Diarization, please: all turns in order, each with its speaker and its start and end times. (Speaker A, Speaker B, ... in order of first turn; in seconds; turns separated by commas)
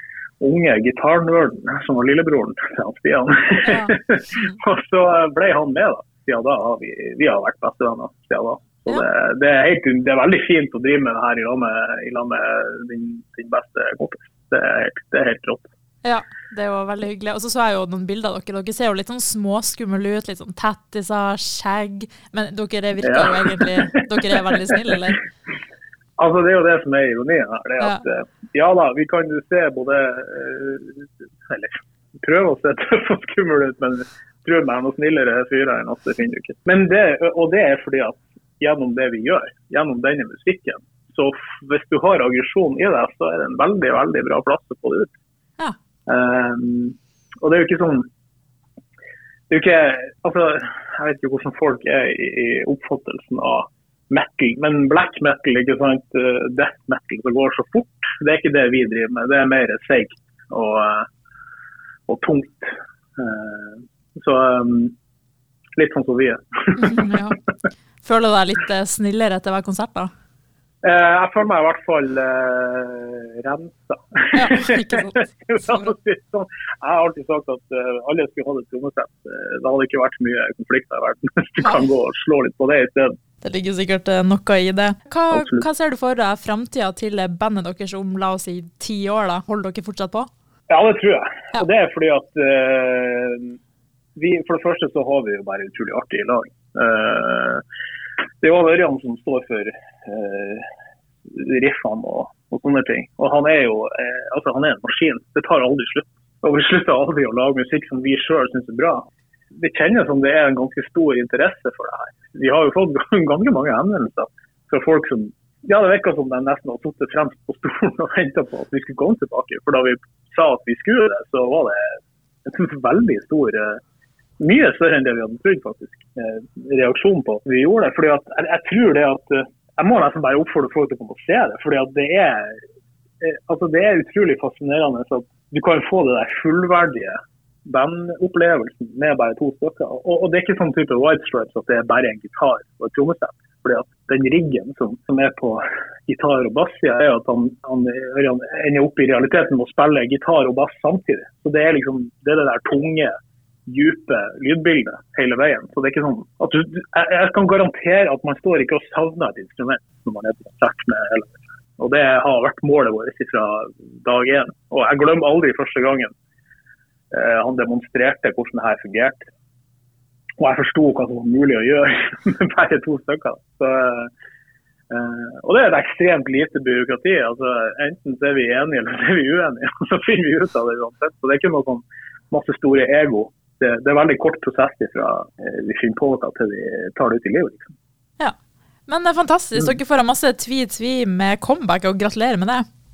Speaker A: 0.4-15.7, Speaker B: 3.6-4.6, Speaker B: 16.0-25.2, Speaker A: 23.0-24.0, Speaker A: 26.2-45.1, Speaker A: 46.1-48.1, Speaker A: 49.5-61.1, Speaker A: 62.1-64.9, Speaker A: 65.8-67.2, Speaker B: 66.8-67.4, Speaker B: 68.0-70.1, Speaker A: 70.8-83.1, Speaker B: 74.3-75.9, Speaker B: 81.6-81.9, Speaker B: 83.4-90.3, Speaker A: 85.3-85.7, Speaker A: 90.7-93.6, Speaker A: 94.2-97.6, Speaker A: 98.4-100.7, Speaker A: 101.3-121.9, Speaker A: 122.5-123.8, Speaker A: 124.4-132.6, Speaker A: 133.2-153.1, Speaker A: 153.7-166.1, Speaker A: 167.1-169.3, Speaker A: 170.4-174.1, Speaker A: 174.9-187.7, Speaker B: 188.9-192.7